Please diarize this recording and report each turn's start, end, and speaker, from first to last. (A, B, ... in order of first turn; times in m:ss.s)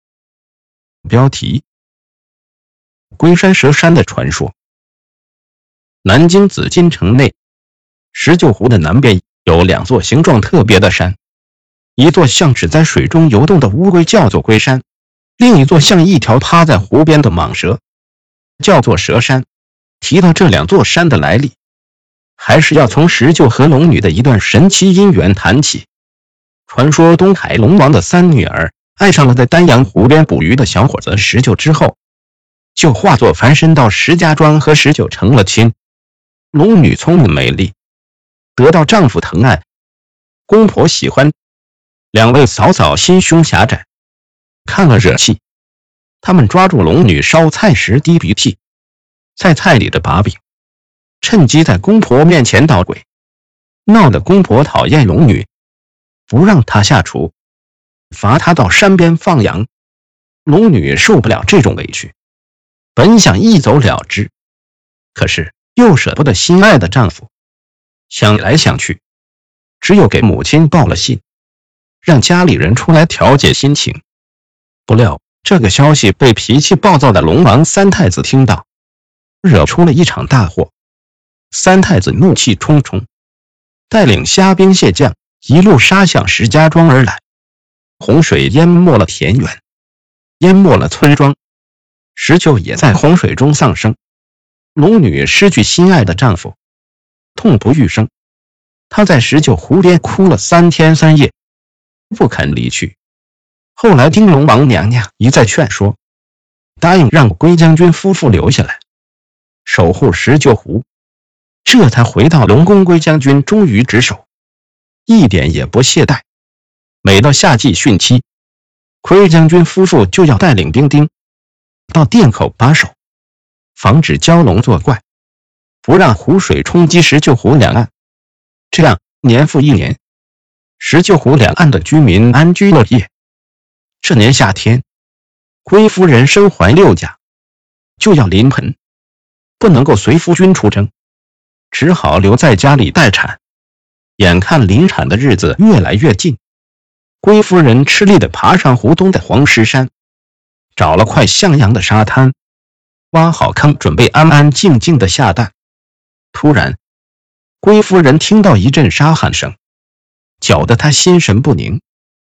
0:01.0-0:01.6 A
0:03.2-0:04.5 A
0:06.0-0:07.4 A
0:08.1-0:11.2 A
0:12.0-0:14.8 A
0:15.4-0:17.8 A
0:18.6-0:19.5 A
0:20.0-0:21.6 A
0:22.4-0:25.9 A
0:26.7-0:32.0 A
0:32.8-0:35.7 A
0:36.5-0:37.7 A
0:38.6-0:39.6 A
0:40.5-0:41.3 A
0:42.1-0:43.9 A
0:44.7-0:45.4 A
0:46.2-0:48.6 A
0:49.4-0:50.4 A
0:51.2-0:53.0 A
0:53.9-0:55.5 A
0:56.3-0:57.3 A
0:58.1-0:59.7 A
1:00.5-1:02.1 A
1:03.0-1:04.3 A
1:05.2-1:07.3 A
1:08.1-1:09.0 A
1:09.8-1:11.2 A
1:12.0-1:14.0 A
1:14.9-1:18.6 A
1:19.4-1:20.7 A
1:21.5-1:23.1 A
1:23.9-1:27.2 A
1:28.0-1:29.6 A
1:30.4-1:31.4 A
1:32.2-1:34.0 A
1:34.8-1:36.6 A
1:37.4-1:38.1 A
1:38.9-1:41.3 A
1:42.1-1:43.0 A
1:43.8-1:46.0 A
1:46.8-1:48.8 A
1:49.6-1:50.8 A
1:51.6-1:54.2 A
1:55.1-1:56.2 A
1:57.0-1:58.2 A
1:59.0-2:01.1 A
2:01.9-2:03.0 A
2:03.8-2:05.0 A
2:05.8-2:07.9 A
2:08.7-2:10.0 A
2:10.8-2:13.1 A
2:14.0-2:14.8 A
2:15.6-2:17.2 A
2:18.0-2:18.8 A
2:19.6-2:20.9 A
2:21.7-2:23.4 A
2:24.2-2:26.4 A
2:27.2-2:29.9 A
2:30.8-2:32.3 A
2:33.1-2:35.5 A
2:36.3-2:36.8 A
2:37.6-2:39.6 A
2:40.4-2:41.8 A